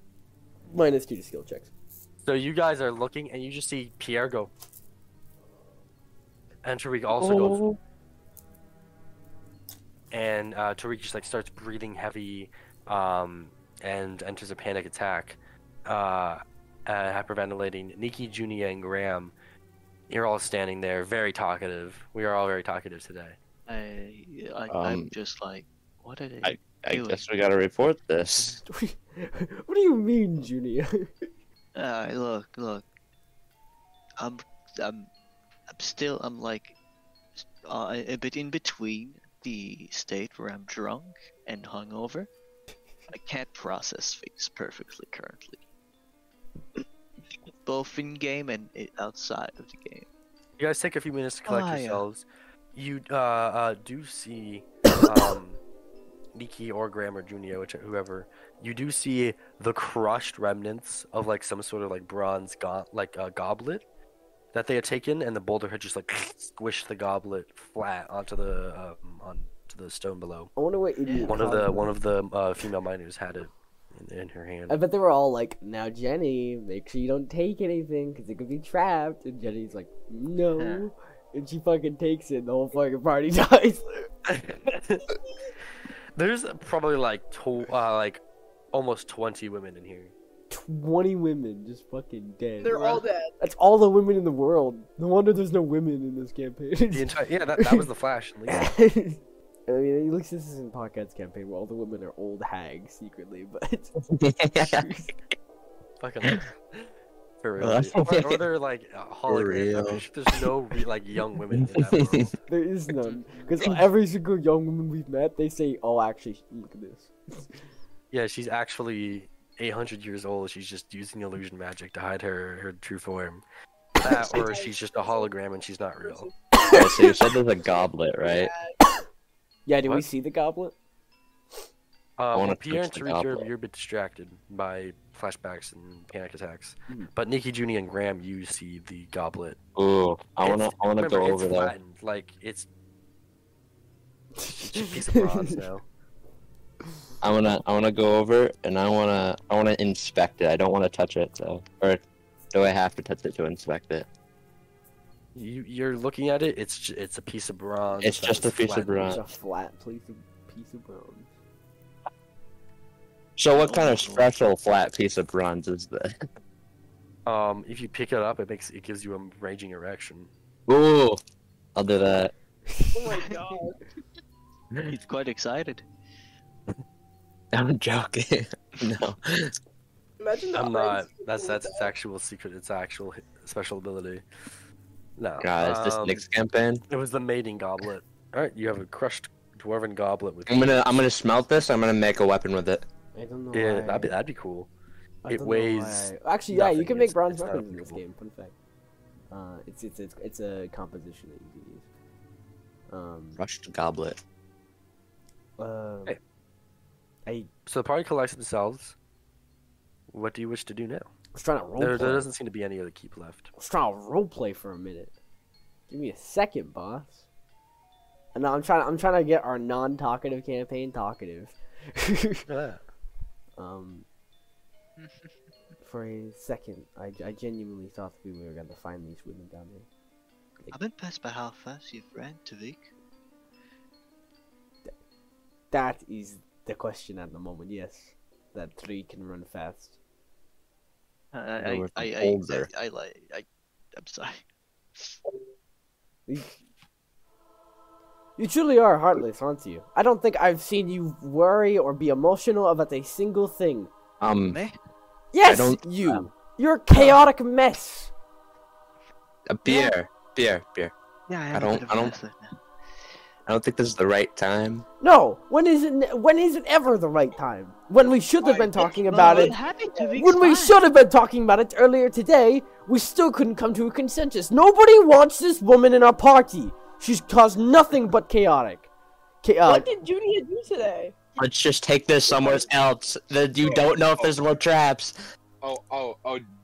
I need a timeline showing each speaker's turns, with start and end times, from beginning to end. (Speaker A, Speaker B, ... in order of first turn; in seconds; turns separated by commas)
Speaker A: 0.7-1.7, Speaker B: 2.2-4.5, Speaker B: 6.6-7.6, Speaker C: 7.2-7.8, Speaker B: 10.1-19.3, Speaker B: 20.1-23.4, Speaker D: 23.7-27.3, Speaker C: 24.7-25.1, Speaker C: 26.4-28.6, Speaker A: 28.7-31.3, Speaker D: 31.8-32.9, Speaker D: 34.2-35.1, Speaker D: 35.7-36.8, Speaker D: 37.4-42.3, Speaker D: 43.1-45.6, Speaker D: 47.6-50.1, Speaker B: 50.6-55.6, Speaker D: 51.5-52.0, Speaker B: 56.3-63.8, Speaker B: 64.5-70.5, Speaker A: 70.6-71.9, Speaker D: 71.0-71.3, Speaker B: 71.3-74.8, Speaker A: 74.7-84.1, Speaker D: 80.6-80.8, Speaker B: 84.3-85.1, Speaker B: 86.2-88.2, Speaker B: 88.7-90.1, Speaker A: 90.5-97.9, Speaker E: 92.6-93.3, Speaker B: 96.9-98.7, Speaker A: 98.5-104.0, Speaker C: 104.1-104.9, Speaker A: 104.6-105.1, Speaker B: 106.0-106.9, Speaker B: 107.4-112.2, Speaker C: 107.6-108.4, Speaker C: 109.3-110.5, Speaker C: 111.5-112.3, Speaker A: 112.5-117.6, Speaker D: 113.0-113.5, Speaker B: 118.1-123.4, Speaker B: 124.0-126.3, Speaker E: 124.3-125.3, Speaker E: 126.0-126.4, Speaker A: 126.7-127.2, Speaker C: 126.7-128.5, Speaker E: 127.8-128.8, Speaker A: 129.7-130.8, Speaker B: 132.2-139.6, Speaker C: 132.3-133.5, Speaker C: 139.8-141.7, Speaker B: 140.4-142.7, Speaker A: 144.4-145.6, Speaker B: 144.6-145.9, Speaker C: 147.2-154.1, Speaker B: 155.3-159.2, Speaker C: 158.0-159.2, Speaker A: 159.1-161.3, Speaker C: 163.4-166.1, Speaker D: 163.6-164.3, Speaker B: 167.3-170.3, Speaker C: 170.7-171.2, Speaker C: 171.8-172.3, Speaker A: 172.7-173.3, Speaker E: 172.9-173.8, Speaker D: 174.9-175.8, Speaker C: 177.5-179.5, Speaker E: 180.2-181.9, Speaker B: 180.5-184.2, Speaker B: 185.2-186.2, Speaker C: 185.4-186.8, Speaker B: 186.9-190.9, Speaker C: 190.5-192.8, Speaker A: 193.2-194.1, Speaker B: 193.5-194.7, Speaker A: 195.2-198.6, Speaker B: 195.3-198.0, Speaker A: 199.3-201.9, Speaker A: 202.9-203.4, Speaker C: 203.4-204.2, Speaker A: 205.6-206.2, Speaker B: 207.7-209.0, Speaker B: 210.1-211.1, Speaker A: 211.3-212.3, Speaker B: 211.8-213.5, Speaker A: 213.6-215.1, Speaker A: 215.9-217.3, Speaker A: 218.3-222.5, Speaker B: 222.5-222.8, Speaker A: 223.6-224.1, Speaker D: 225.0-225.4, Speaker A: 225.8-229.9, Speaker D: 230.7-232.9, Speaker A: 235.7-240.0, Speaker D: 241.3-244.4, Speaker C: 241.6-242.7, Speaker A: 246.3-246.6, Speaker A: 248.4-253.9, Speaker C: 254.2-254.6, Speaker D: 254.5-254.8, Speaker A: 255.3-258.1, Speaker C: 255.4-256.3, Speaker C: 259.5-260.9, Speaker D: 261.3-262.6, Speaker C: 261.5-262.1, Speaker C: 263.5-264.9, Speaker A: 265.0-269.6, Speaker F: 268.4-269.6, Speaker D: 269.1-270.8, Speaker A: 270.2-278.9, Speaker A: 279.4-279.9, Speaker E: 279.7-281.1, Speaker C: 281.4-285.1, Speaker F: 282.3-282.7, Speaker F: 283.6-284.4, Speaker F: 285.6-286.5